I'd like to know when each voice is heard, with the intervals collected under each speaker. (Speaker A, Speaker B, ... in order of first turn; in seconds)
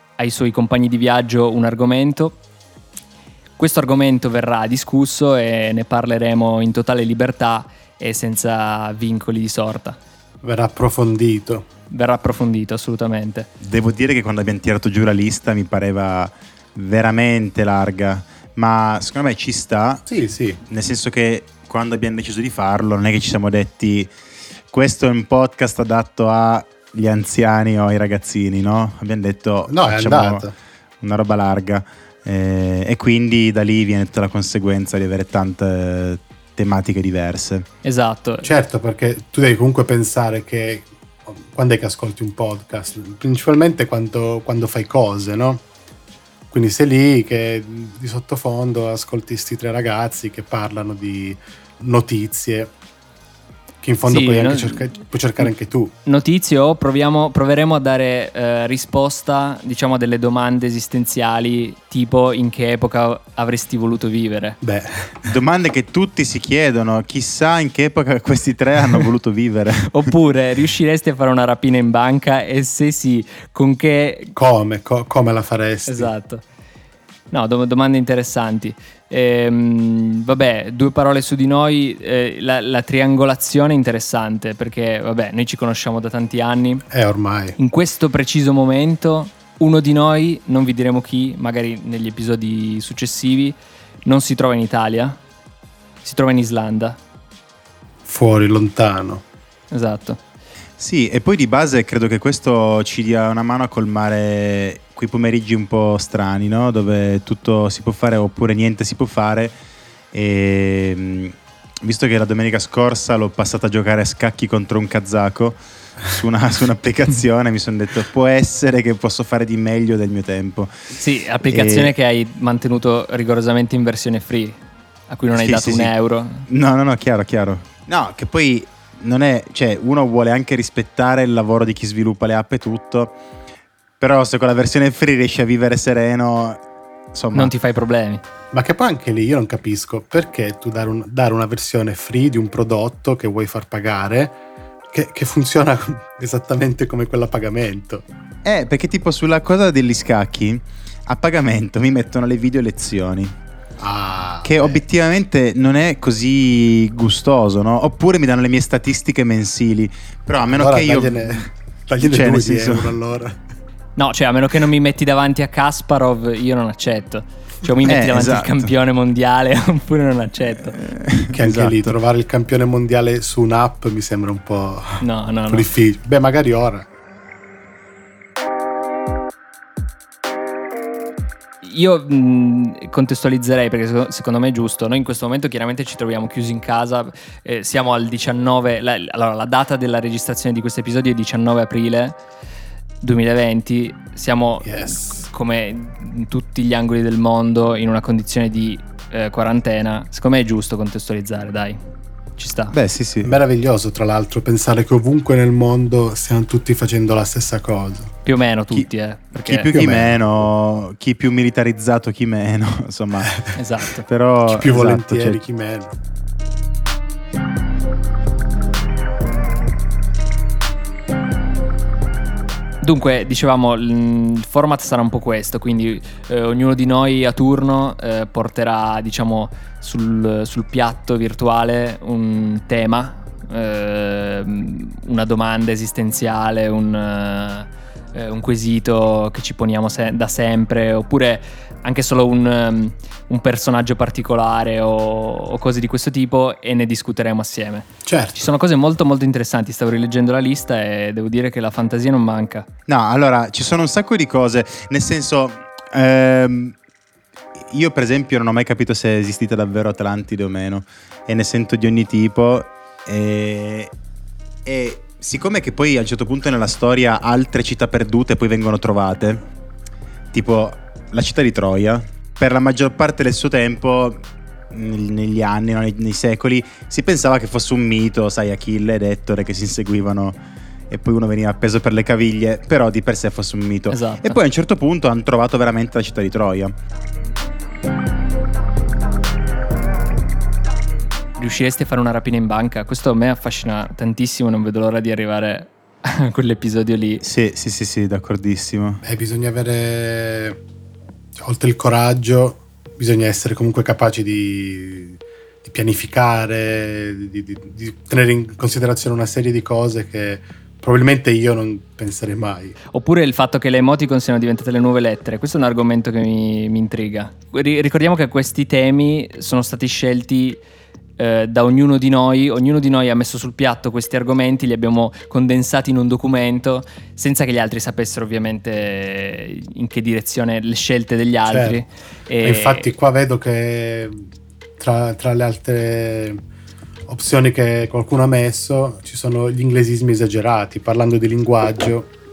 Speaker A: 0.2-2.4, 3.6-10.0, 11.9-13.5, 37.8-38.5, 54.0-54.9, 56.0-64.6, 69.9-74.3, 75.9-76.4, 77.3-86.8, 87.6-95.2, 96.0-97.0, 99.7-100.2, 120.9-126.5, 137.3-138.2, 164.0-170.8, 171.4-171.7, 175.0-175.7, 181.6-192.2, 193.0-201.8, 202.4-202.8, 208.2-209.7, 213.5-214.0, 222.8-252.7, 283.9-284.4, 291.4-297.2, 312.9-320.6, 321.2-332.9
Speaker B: 10.4-11.7, 20.1-20.6, 29.7-30.5, 38.4-45.6, 46.5-52.7, 53.8-55.9, 64.6-65.3, 74.3-76.1, 86.9-87.6, 98.1-99.2, 138.5-144.4, 144.9-148.1, 153.8-154.8, 160.4-163.4, 171.3-176.9, 194.6-195.2, 203.2-208.1, 209.7-210.2, 213.2-213.6, 214.4-215.9, 248.1-248.4, 299.0-300.6, 301.4-312.7, 331.5-331.8, 332.4-334.3, 334.8-336.4, 337.1-342.1
Speaker C: 13.6-20.1, 20.7-24.1, 24.7-30.4, 31.0-37.6, 65.2-70.0, 100.8-109.5, 110.1-120.7, 121.4-121.9, 125.3-125.9, 126.5-133.1, 134.0-136.6, 137.1-137.5, 148.4-153.3, 154.4-161.5, 162.0-162.9, 167.8-168.7, 170.7-171.9, 202.7-203.3, 208.7-213.3, 214.1-215.4, 252.9-256.8, 257.7-263.9, 264.6-269.4, 270.3-280.4, 280.9-286.7, 297.2-299.0